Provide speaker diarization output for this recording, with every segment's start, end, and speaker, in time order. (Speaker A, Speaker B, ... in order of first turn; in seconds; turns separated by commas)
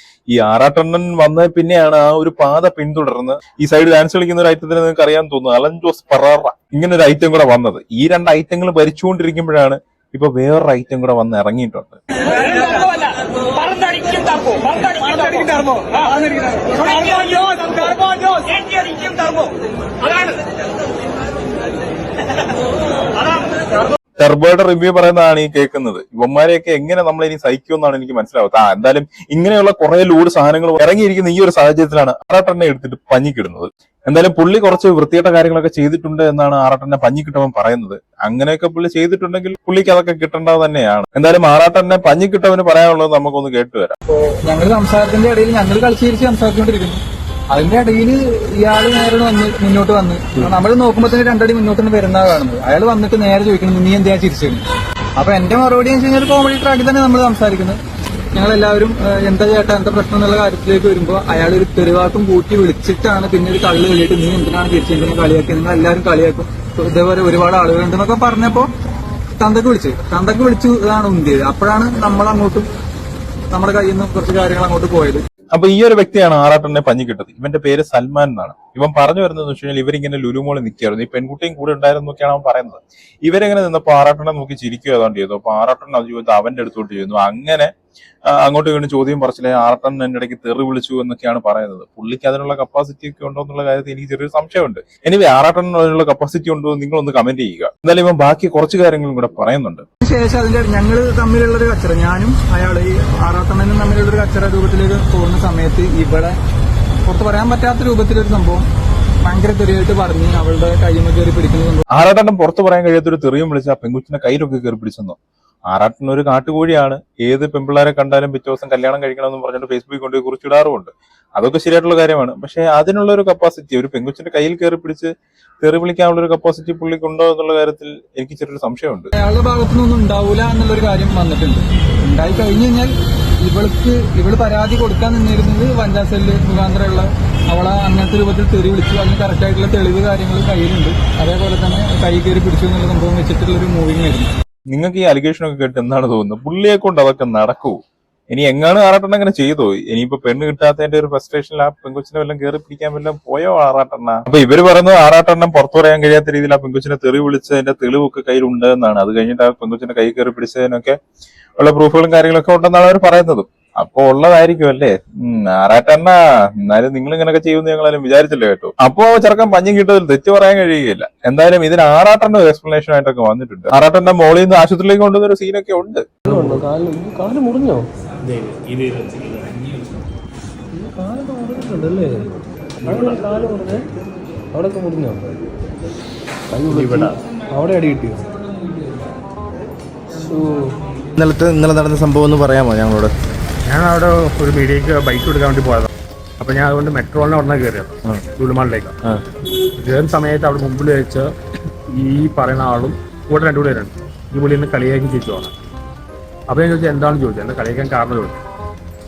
Speaker A: 0.3-12.0, Speaker B: 14.9-15.8, Speaker B: 16.7-18.1, Speaker A: 24.2-44.0, Speaker B: 44.1-47.0, Speaker B: 47.5-54.6, Speaker B: 55.2-57.8, Speaker B: 58.3-68.7, Speaker B: 69.4-72.7, Speaker B: 73.5-75.2, Speaker A: 75.5-87.7, Speaker A: 88.3-99.8, Speaker B: 100.0-106.3, Speaker B: 107.0-108.6, Speaker B: 109.2-111.8, Speaker A: 111.9-115.2, Speaker A: 115.7-129.1, Speaker B: 129.2-144.3, Speaker A: 144.7-147.8, Speaker A: 148.3-160.9, Speaker A: 161.6-176.0, Speaker C: 176.2-177.9, Speaker C: 178.4-179.0, Speaker C: 180.7-183.9, Speaker C: 184.5-185.4, Speaker C: 186.5-188.3, Speaker D: 186.7-187.2, Speaker C: 190.2-190.8, Speaker E: 191.2-193.1, Speaker D: 193.6-195.9, Speaker D: 196.4-199.0, Speaker D: 199.8-201.3, Speaker D: 201.9-205.5, Speaker D: 206.5-208.4